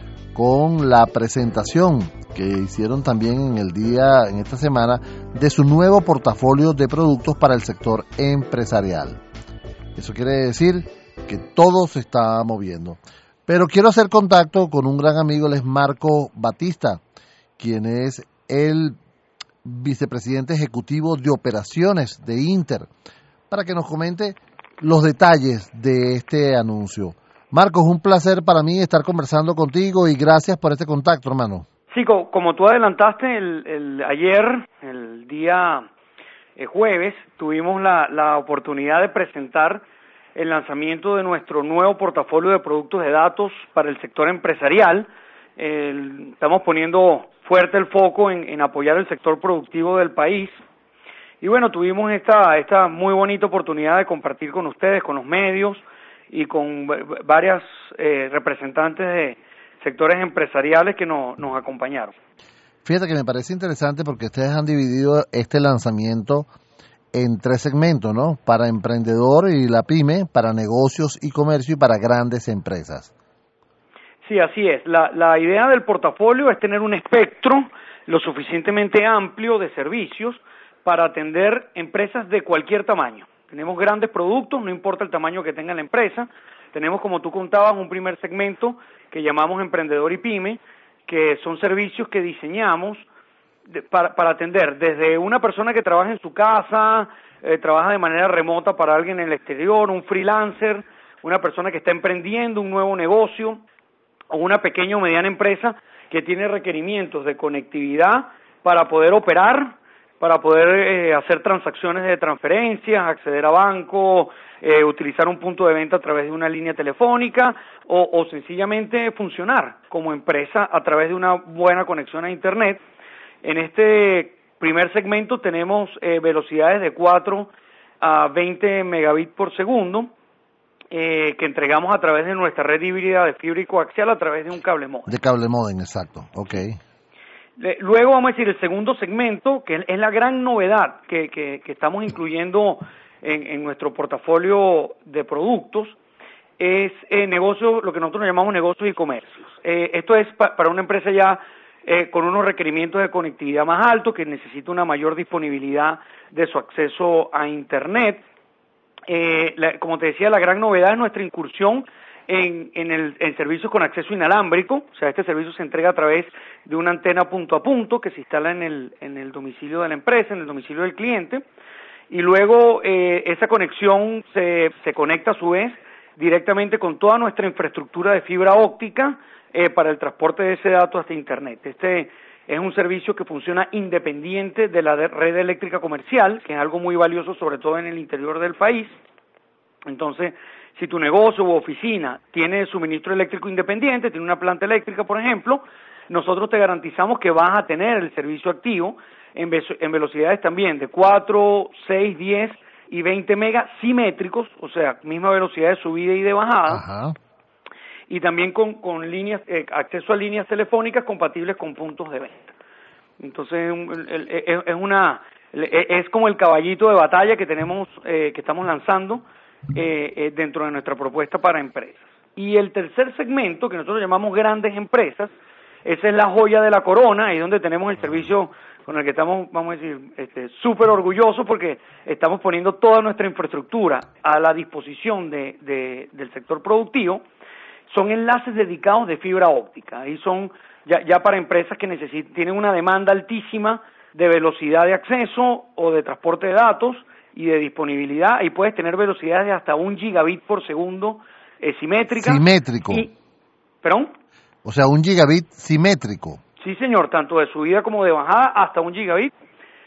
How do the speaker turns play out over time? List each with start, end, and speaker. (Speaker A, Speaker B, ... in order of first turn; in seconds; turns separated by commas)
Speaker A: 0.3-9.2, Speaker A: 9.9-17.0, Speaker A: 17.6-18.9, Speaker A: 19.6-22.9, Speaker A: 23.5-31.6, Speaker B: 31.9-35.9, Speaker B: 36.6-39.8, Speaker B: 40.3-50.6, Speaker B: 51.4-62.1, Speaker A: 62.8-66.5, Speaker A: 67.1-73.1, Speaker B: 74.2-93.1, Speaker B: 93.7-103.6, Speaker B: 104.3-122.8, Speaker B: 123.4-130.1, Speaker B: 130.9-135.1, Speaker A: 135.1-136.8, Speaker B: 137.6-146.0, Speaker B: 146.6-158.2, Speaker B: 159.1-171.4, Speaker B: 172.1-189.0, Speaker B: 189.8-206.9, Speaker A: 206.7-207.2, Speaker B: 208.1-212.5, Speaker B: 213.2-225.3, Speaker B: 225.8-237.2, Speaker B: 237.9-253.1, Speaker A: 252.1-253.1, Speaker B: 253.8-254.1, Speaker A: 254.6-256.4, Speaker B: 256.6-259.3